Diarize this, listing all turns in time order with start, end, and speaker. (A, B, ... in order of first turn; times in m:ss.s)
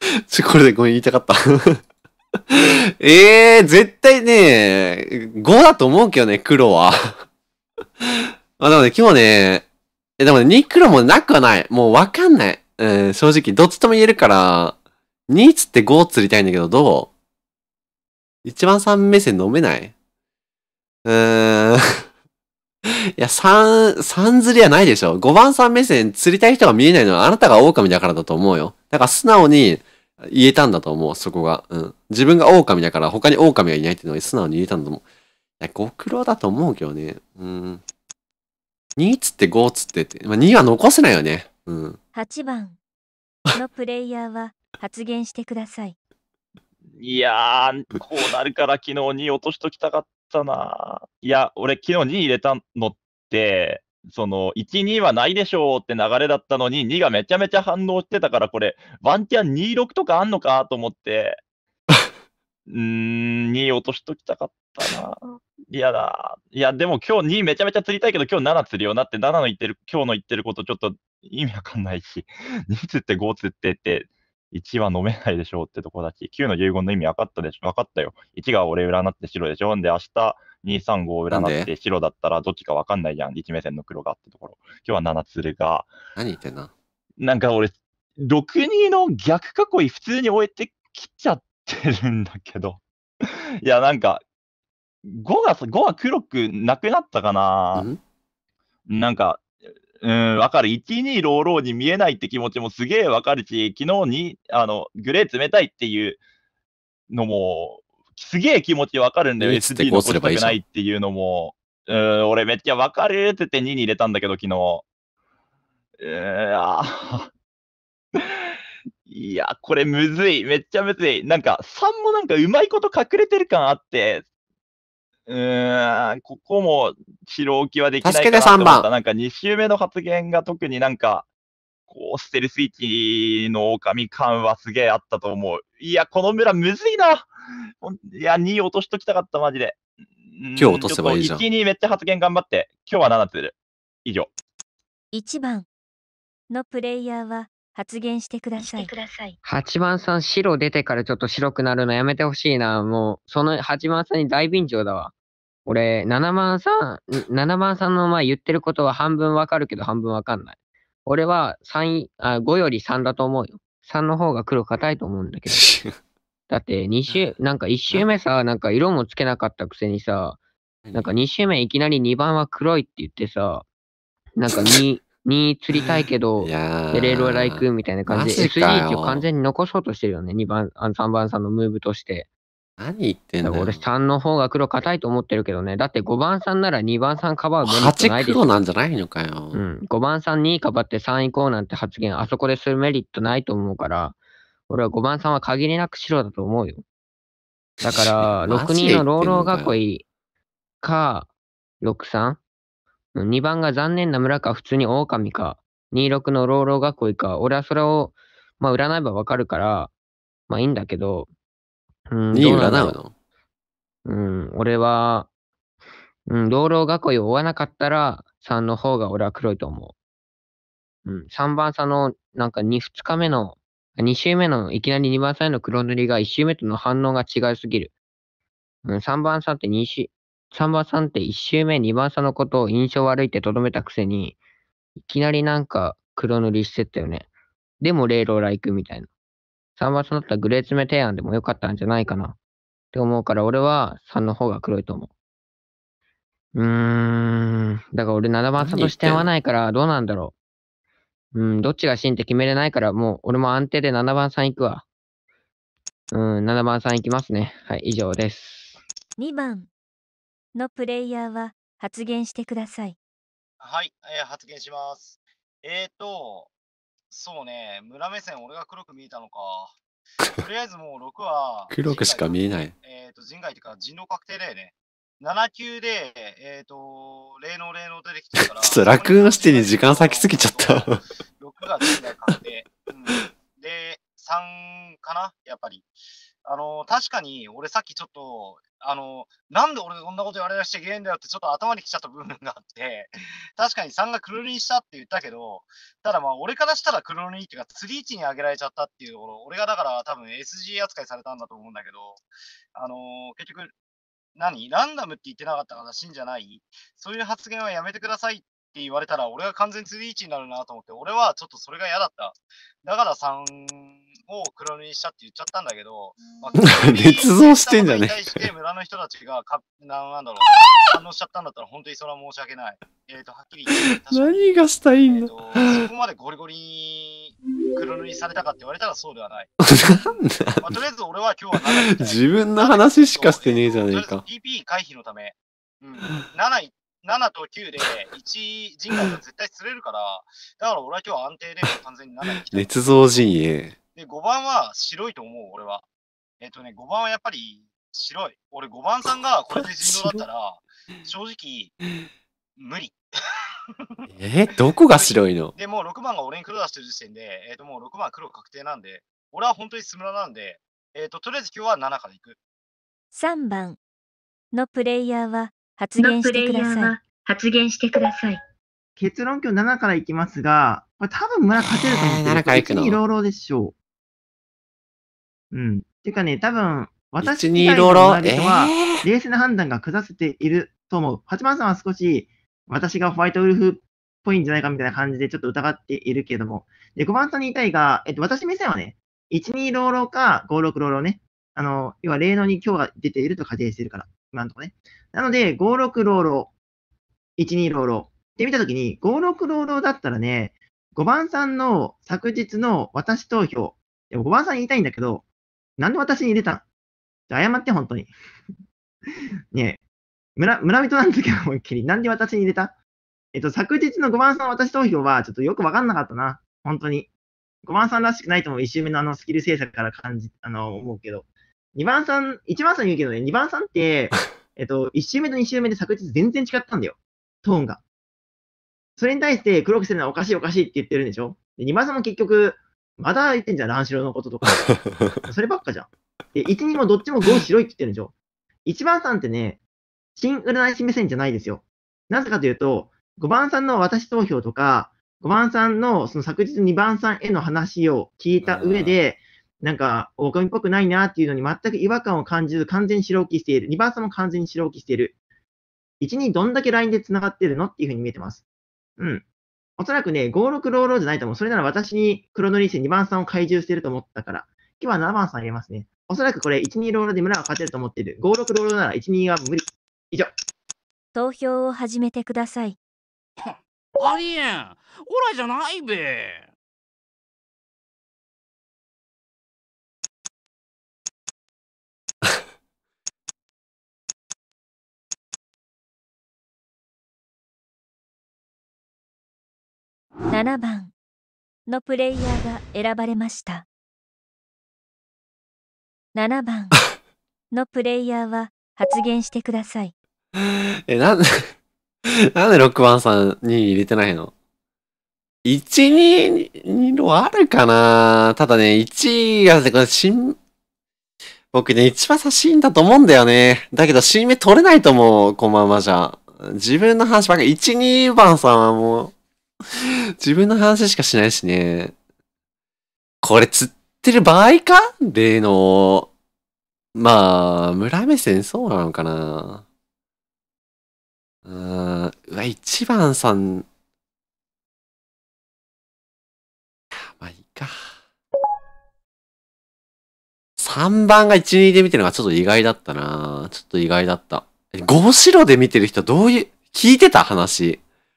0:00.3-0:01.8 A
0:02.5-0:07.2 A
0:08.0-0:09.6 A
0:10.2-0:14.8 A
0:15.3-0:17.1 A
0:18.4-0:19.9 A
0:21.0-0:22.0 A
0:22.9-0:35.0 A
0:35.6-0:37.8 A
0:39.0-0:42.0 A
0:42.1-0:42.8 B
0:43.5-0:46.0 B
0:47.0-1:01.4 C
1:02.7-1:25.9 C
1:21.3-1:21.7 A
1:26.2-1:26.7 A
1:27.2-1:34.2 C
1:35.0-1:37.9 C
1:37.7-1:38.0 A
1:38.9-1:39.4 C
1:40.0-1:46.2 C
1:47.1-1:54.8 C
1:49.4-1:50.6 A
1:56.0-1:57.3 C
1:58.2-1:58.5 C
1:59.1-2:04.2 C
2:05.3-2:11.2 C
2:08.0-2:08.9 A
2:11.9-2:17.3 C
2:17.8-2:24.3 C
2:20.6-2:21.4 A
2:25.1-2:25.7 B
2:26.5-2:28.9 B
2:28.6-2:29.4 D
2:29.4-2:35.1 E
2:35.6-2:45.7 E
2:45.5-2:46.0 A
2:46.5-2:50.4 E
2:50.8-2:51.1 A
2:50.9-2:53.6 E
2:54.4-3:02.3 E
2:54.5-2:54.8 A
2:55.8-2:59.2 A
3:02.8-3:03.8 A
3:03.4-3:08.5 E
3:07.6-3:09.6 A
3:09.5-3:14.2 E
3:14.7-3:16.8 E
3:17.8-3:19.7 A
3:17.8-3:20.0 E
3:20.8-3:21.3 E
3:21.8-3:22.4 E
3:23.1-3:29.9 E
3:30.5-3:31.3 E
3:32.1-3:33.0 E
3:32.3-3:33.1 A
3:34.0-3:35.3 E
3:36.3-3:39.9 E
3:41.0-3:47.9 E
3:48.8-3:54.4 E
3:55.0-3:57.3 E
3:57.8-3:59.1 E
3:59.8-4:02.4 E
4:02.9-4:05.1 E
4:06.5-4:10.3 E
4:08.6-4:09.3 A
4:11.3-4:14.8 E
4:16.1-4:18.8 E
4:19.2-4:19.7 B
4:20.5-4:23.0 B
4:23.6-4:26.5 F
4:27.1-4:29.7 F
4:30.4-4:45.9 F
4:31.7-4:32.7 A
4:38.4-4:41.0 A
4:46.4-5:02.2 F
5:02.7-5:03.7 F
5:04.4-5:42.7 F
5:16.6-5:18.4 A
5:23.7-5:25.8 A
5:29.6-5:30.8 A
5:31.6-5:34.2 A
5:42.5-5:43.7 A
5:43.9-5:45.8 F
5:46.4-5:51.7 F
5:49.5-5:50.2 A
5:52.6-5:53.0 F
5:54.1-5:55.5 A
5:55.0-6:02.4 F
6:03.1-6:03.8 B
6:04.5-6:06.9 B
6:06.0-6:08.4 D
6:09.0-6:13.8 G
6:11.6-6:13.0 A
6:15.5-6:36.5 G
6:17.2-6:19.0 A
6:37.4-6:45.2 G
6:45.8-6:46.6 G
6:47.3-6:48.1 G
6:49.5-6:49.8 G
6:50.4-6:52.8 G
6:53.3-6:57.1 G
6:57.6-7:07.8 G
7:09.0-7:18.1 G
7:14.7-7:15.2 A
7:18.6-7:19.6 G
7:20.2-7:35.2 G
7:28.4-7:29.0 A
7:36.0-7:38.4 G
7:39.0-7:39.2 G
7:39.8-7:50.3 G
7:51.1-7:52.8 B
7:53.4-7:56.5 H
8:10.3-8:10.9 B
8:11.7-8:13.6 B
8:16.1-8:16.7 B
8:17.5-8:19.9 B
8:20.4-8:21.5 A
8:22.3-8:24.3 A
8:25.4-8:30.4 A
8:31.5-8:39.1 A
8:40.2-8:41.9 A
8:43.2-8:46.1 A
8:46.9-8:49.6 A
8:51.4-8:53.6 A
8:56.9-8:57.9 A
9:00.6-9:07.8 A